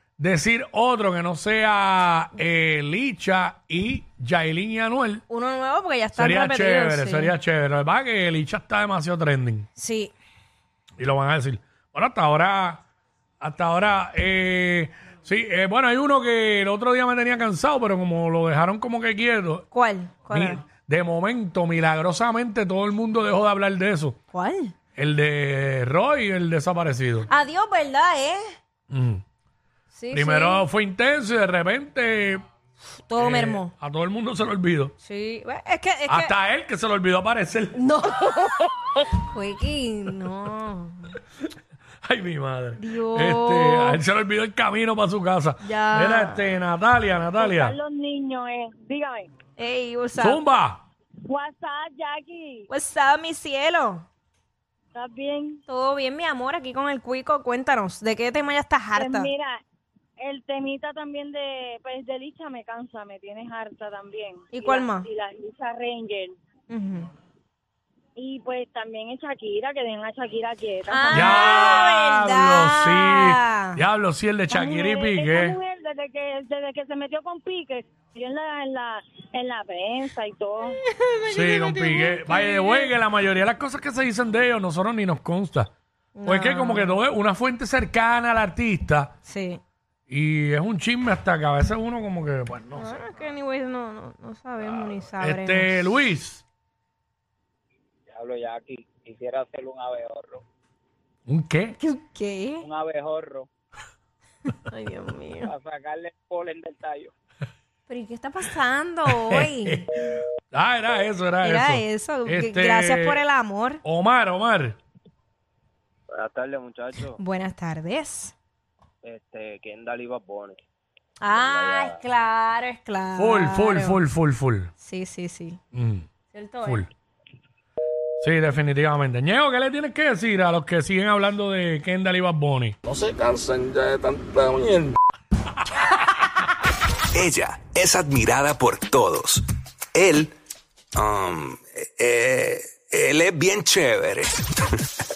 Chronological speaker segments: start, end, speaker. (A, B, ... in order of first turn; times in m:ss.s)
0:00.2-0:05.2 A
0:05.3-0:07.3 B
0:06.1-0:09.6 A
0:09.8-0:10.1 B
0:11.0-0:12.8 A
0:13.4-0:19.6 A
0:19.7-0:20.6 B
0:20.3-0:24.2 A
0:24.3-0:24.7 B
0:24.9-0:27.3 A
0:27.3-0:28.5 B
0:28.9-0:29.2 A
0:29.9-0:30.6 B
0:30.1-0:32.4 A
0:33.1-0:33.7 B
0:33.2-0:34.9 A
0:35.0-0:36.3 B
0:36.1-0:37.8 A
0:37.7-0:41.2 B
0:42.0-0:47.8 A
0:42.8-0:44.0 B
0:45.6-0:46.5 B
0:47.4-0:49.3 C
0:49.6-0:50.4 B
0:50.1-0:50.8 A
0:51.2-0:52.6 C
0:52.7-0:54.0 B
0:54.9-0:55.6 C
0:55.7-0:59.3 B
0:58.9-0:59.6 C
1:00.2-1:06.4 C
1:04.5-1:05.1 B
1:06.7-1:07.1 B
1:08.2-1:11.7 C
1:10.9-1:13.8 B
1:11.1-1:15.6 A
1:14.5-1:20.8 C
1:20.9-1:22.9 B
1:21.3-1:25.7 A
1:26.1-1:27.0 B
1:26.2-1:29.2 A
1:29.2-1:29.6 B
1:30.1-1:33.0 A
1:32.8-1:35.7 B
1:35.2-1:36.4 A
1:38.1-1:40.4 D
1:41.3-1:41.8 A
1:41.8-1:42.6 B
1:42.6-1:43.5 D
1:44.6-1:45.5 B
1:45.4-1:47.1 D
1:47.9-1:49.8 B
1:49.1-1:53.2 A
1:51.4-1:53.8 B
1:53.8-1:54.8 A
1:56.2-1:57.1 E
1:57.2-1:58.3 B
1:59.0-2:00.6 E
2:01.2-2:04.0 B
2:01.3-2:01.9 E
2:03.2-2:04.7 A
2:04.8-2:05.6 B
2:05.7-2:06.0 A
2:06.3-2:06.8 B
2:06.6-2:06.9 A
2:08.2-2:12.8 A
2:12.9-2:14.9 F
2:17.1-2:20.3 F
2:21.0-2:24.3 F